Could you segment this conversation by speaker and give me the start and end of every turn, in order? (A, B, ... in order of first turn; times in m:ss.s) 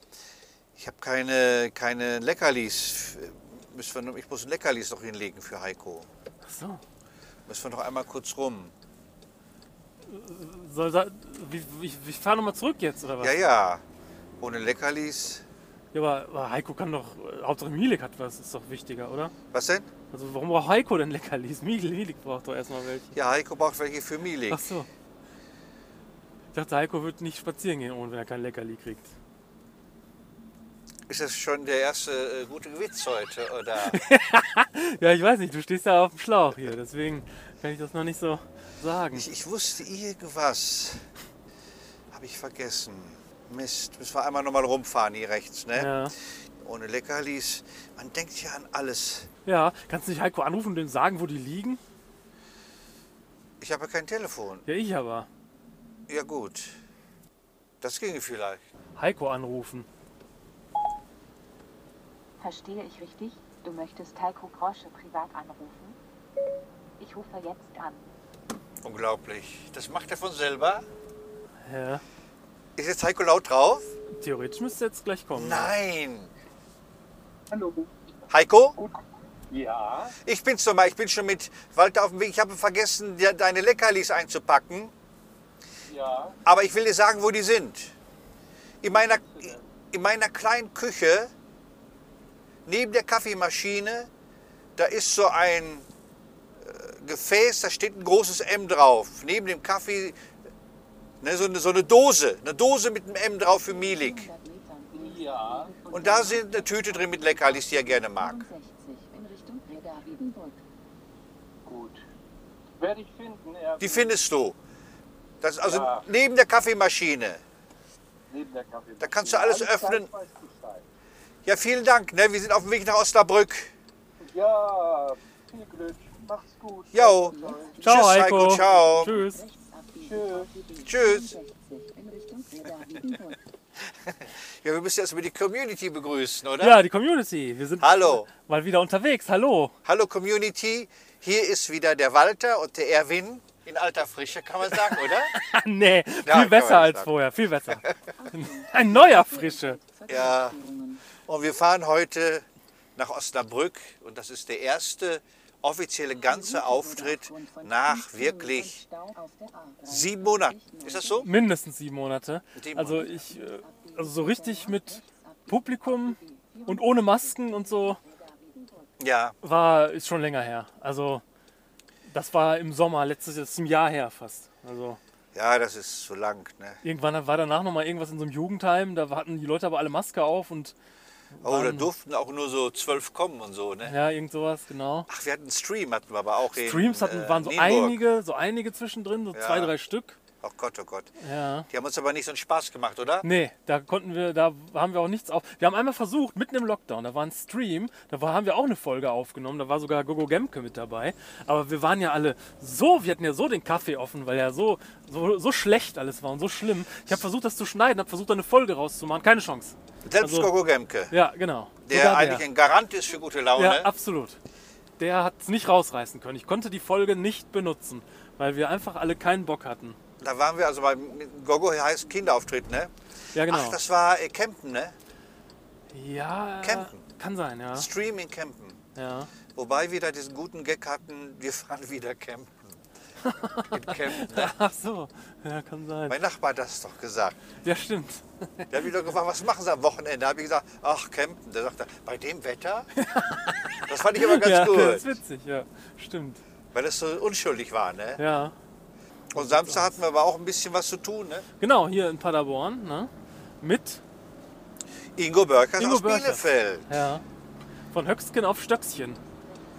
0:00.8-0:06.1 A
0:06.4-0:06.8 B
0:07.5-0:08.7 A
0:10.1-0:13.3 B
0:13.2-0:13.8 A
0:14.4-0:15.4 A
0:15.9-0:19.3 B
0:19.5-0:19.9 A
0:20.1-0:23.1 B
0:23.1-0:24.8 A
0:24.5-0:24.9 B
0:26.5-0:29.1 B
0:31.1-0:34.0 A
0:33.8-0:39.3 B
0:39.2-0:41.1 A
0:42.1-0:49.3 A
0:45.8-0:46.1 B
0:49.5-0:51.8 B
0:53.6-0:54.6 A
0:54.7-0:55.3 B
0:56.1-0:56.8 A
0:57.8-0:58.6 A
0:59.0-0:59.9 B
1:02.4-1:06.0 C
1:07.0-1:08.1 C
1:08.8-1:10.8 A
1:11.6-1:12.0 B
1:12.8-1:13.9 A
1:14.2-1:15.7 B
1:15.4-1:16.3 A
1:17.5-1:18.0 D
1:18.3-1:18.8 A
1:19.5-1:20.2 D
1:20.2-1:24.9 A
1:25.9-1:26.4 D
1:26.5-1:27.9 A
1:28.8-1:31.3 A
1:28.9-1:29.7 D
1:32.7-1:34.1 A
1:34.8-1:35.9 A
1:36.6-1:40.2 A
1:41.2-1:44.3 A
1:43.4-1:50.6 C
1:44.9-1:45.8 D
1:45.9-1:48.5 A
1:51.7-1:52.0 D
1:52.8-1:54.1 D
1:53.8-1:54.6 A
1:55.4-1:57.4 A
1:55.6-1:56.0 D
1:58.3-2:00.8 D
1:59.0-2:00.1 A
2:01.5-2:03.7 A
2:04.2-2:07.8 D
2:06.9-2:09.1 A
2:07.2-2:13.4 C
2:07.8-2:09.4 B
2:10.0-2:10.5 D
2:10.8-2:11.4 A
2:13.9-2:16.8 A
2:16.6-2:19.7 B
2:17.8-2:18.3 A
2:19.8-2:25.3 A
2:24.9-2:29.8 B
2:26.2-2:27.1 A
2:28.2-2:31.0 C
2:30.1-2:30.6 A
2:31.2-2:32.4 A
2:33.0-2:38.8 A
2:36.2-2:41.3 C
2:39.9-2:41.3 A
2:41.2-2:48.0 B
2:42.6-2:43.2 A
2:43.0-2:48.9 C
2:49.0-2:49.4 A
2:49.4-2:51.2 B
2:52.1-2:55.0 B
2:55.3-2:56.8 A
2:56.8-3:00.7 B
3:01.4-3:01.9 B
3:01.4-3:04.0 A
3:03.8-3:05.1 B
3:05.1-3:08.0 A
3:06.5-3:10.2 B
3:09.3-3:09.7 A
3:10.4-3:11.1 A
3:11.2-3:11.7 B
3:11.7-3:13.3 A
3:13.2-3:30.5 B
3:30.0-3:31.1 A
3:31.1-3:32.5 B
3:31.8-3:33.9 A
3:33.6-3:34.4 B
3:35.0-3:40.0 B
3:40.2-3:42.9 A
3:43.3-3:43.8 B
3:43.4-3:45.0 A
3:45.9-3:47.9 B
3:46.6-3:47.0 A
3:47.7-3:48.8 A
3:49.0-3:49.3 B
3:49.5-3:52.8 A
3:53.2-3:56.2 B
3:53.7-3:54.5 A
3:56.1-3:57.4 A
3:57.6-3:58.8 B
3:58.7-4:02.9 A
4:03.0-4:06.4 B
4:03.8-4:05.2 A
4:06.7-4:08.2 A
4:08.2-4:08.6 B
4:09.3-4:11.5 A
4:09.3-4:09.9 B
4:11.6-4:14.0 B
4:15.2-4:16.9 A
4:15.8-4:17.2 B
4:17.9-4:19.2 B